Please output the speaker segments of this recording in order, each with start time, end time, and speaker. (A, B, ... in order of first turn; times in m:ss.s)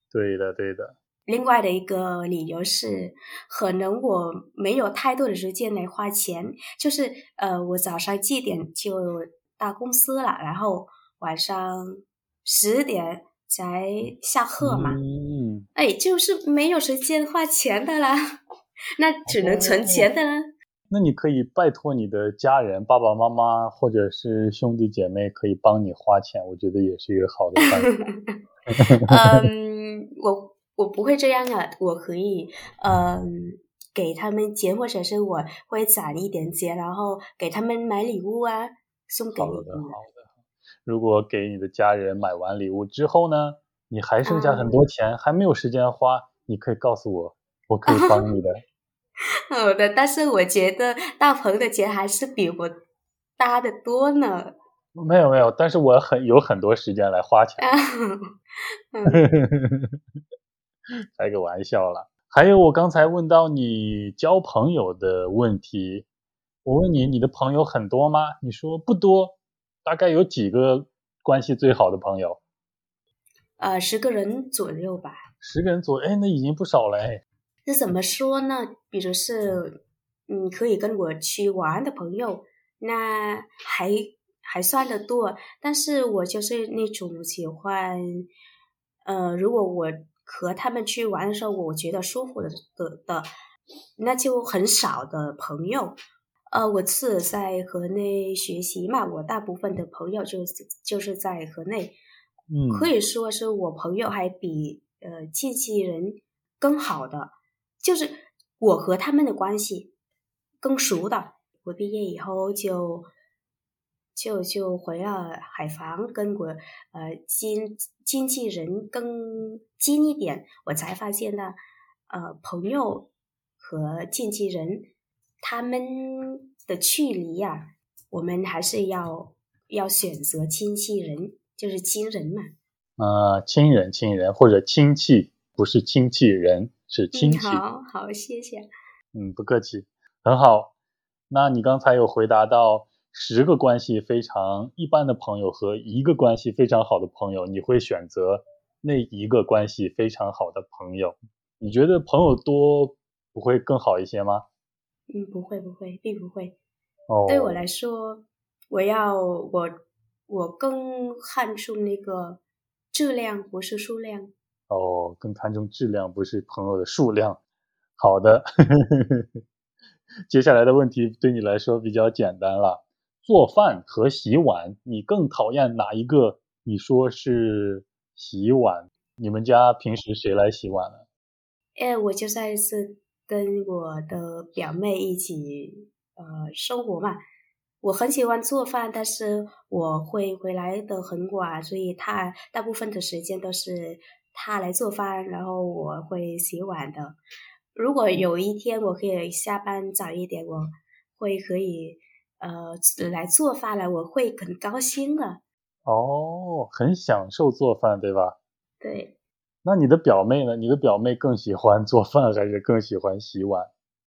0:00.1-0:01.0 A
0:01.3-0:15.0 B
0:14.6-0:15.7 A
0:15.8-0:18.2 B
0:19.0-0:20.5 B
0:19.3-0:20.1 A
0:20.9-0:28.1 A
0:27.6-0:28.4 B
0:29.0-0:40.0 B
0:39.4-0:40.3 A
0:40.8-0:48.6 A
0:44.2-0:44.8 B
0:47.9-0:48.3 B
0:49.5-0:52.8 B
0:53.4-0:54.6 B
0:55.0-0:57.8 A
0:57.6-0:58.4 B
0:58.9-0:59.2 B
0:59.1-1:00.0 A
1:01.2-1:06.0 A
1:06.6-1:12.4 A
1:13.6-1:15.2 B
1:15.4-1:17.2 A
1:17.6-1:28.3 B
1:29.0-1:33.3 B
1:34.0-1:36.0 B
1:36.5-1:42.0 B
1:42.5-1:42.9 A
1:42.7-1:49.9 B
1:50.6-1:53.1 B
1:54.2-2:04.9 B
2:05.4-2:12.5 B
2:13.0-2:17.6 A
2:17.1-2:18.7 B
2:19.1-2:20.7 A
2:21.3-2:34.4 A
2:35.1-2:36.6 B
2:37.1-2:37.6 A
2:37.3-2:39.8 B
2:40.3-2:42.4 B
2:42.9-2:44.3 B
2:44.7-2:47.4 A
2:48.0-2:49.3 A
2:50.3-3:01.0 A
3:01.8-3:07.2 B
3:07.8-3:17.2 B
3:17.8-3:25.4 B
3:25.9-3:28.4 A
3:28.8-3:29.2 B
3:29.6-3:33.7 A